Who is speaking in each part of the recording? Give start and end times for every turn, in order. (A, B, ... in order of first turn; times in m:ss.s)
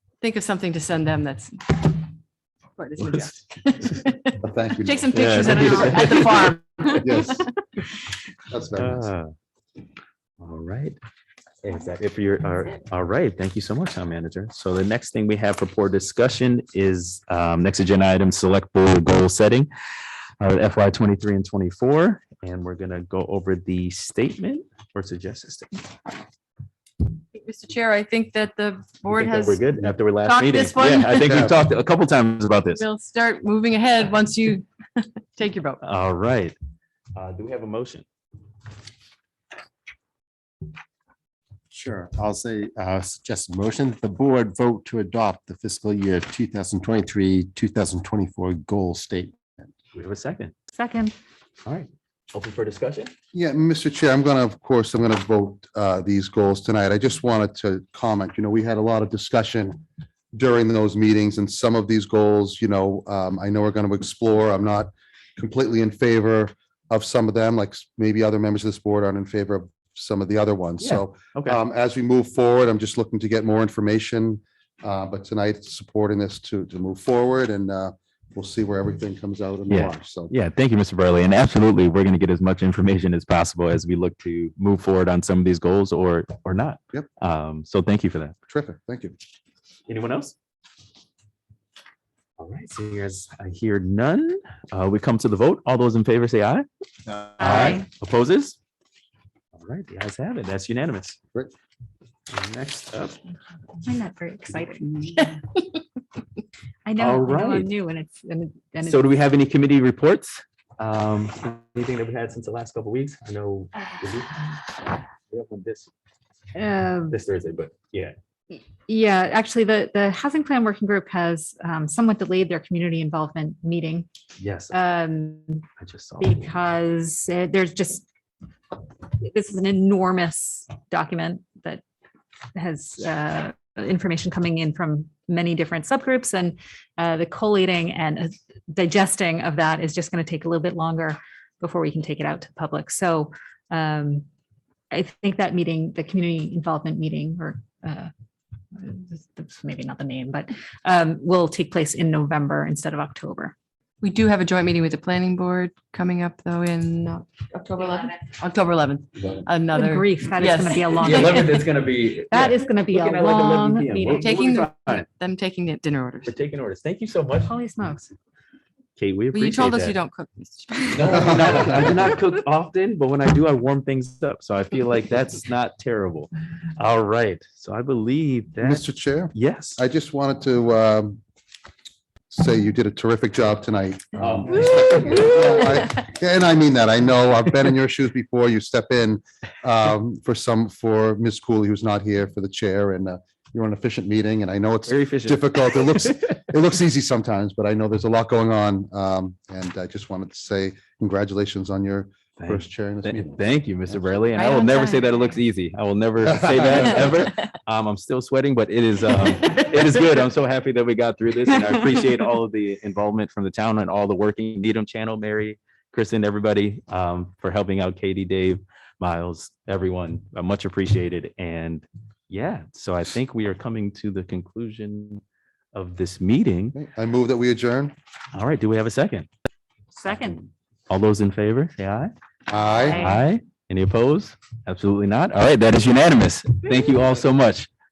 0:00.2-0:02.1 A
0:02.8-0:07.5 A
0:03.0-0:03.3 B
0:04.4-0:06.0 C
0:05.1-0:06.6 B
0:07.0-0:07.5 C
0:08.5-0:09.1 C
0:08.8-0:09.3 B
0:10.4-0:11.0 B
0:11.6-0:19.7 B
0:20.4-0:25.8 B
0:27.3-0:29.6 A
0:29.1-0:32.8 B
0:30.2-0:31.4 A
0:31.2-0:31.6 C
0:32.8-0:35.8 A
0:35.8-0:36.6 B
0:37.2-0:38.0 B
0:41.7-0:49.4 D
0:49.9-0:50.5 B
0:50.7-0:51.2 E
0:51.6-0:53.1 B
0:53.3-0:59.8 C
1:00.3-1:20.3 C
1:10.8-1:11.6 B
1:19.7-1:28.4 B
1:28.5-1:29.2 C
1:29.9-1:30.4 B
1:32.4-1:36.7 B
1:37.4-1:38.6 B
1:37.4-1:37.8 E
1:39.6-1:41.2 B
1:42.3-1:43.2 B
1:43.8-1:45.3 E
1:46.9-1:49.0 E
1:47.0-1:47.7 B
1:48.8-1:54.4 B
1:55.3-1:55.9 B
1:56.5-1:57.2 E
1:57.1-1:58.2 B
1:58.5-2:04.1 E
2:04.4-2:04.8 B
2:04.7-2:05.6 E
2:05.8-2:06.6 B
2:06.2-2:08.1 E
2:09.1-2:11.8 E
2:12.5-2:24.2 E
2:24.9-2:28.1 E
2:28.7-2:33.6 E
2:34.0-2:41.4 A
2:39.7-2:41.8 E
2:41.0-2:45.1 B
2:42.3-2:44.4 E
2:44.1-2:46.3 A
2:46.3-2:47.6 B
2:47.4-2:48.1 E
2:49.0-2:50.0 B
2:49.3-2:51.7 A
2:50.9-2:59.8 B
2:51.1-2:52.0 C
2:58.6-3:01.2 C
3:02.3-3:23.4 C
3:04.2-3:05.6 B
3:14.9-3:16.3 B
3:22.4-3:45.2 B
3:24.4-3:25.3 A
3:26.2-3:27.1 C
3:45.7-3:46.8 B
3:46.7-3:48.0 C
3:48.3-3:49.3 B
3:49.9-3:50.4 E
3:50.9-3:52.1 B
3:52.5-3:53.0 C
3:52.6-3:53.2 E
3:53.0-3:57.7 B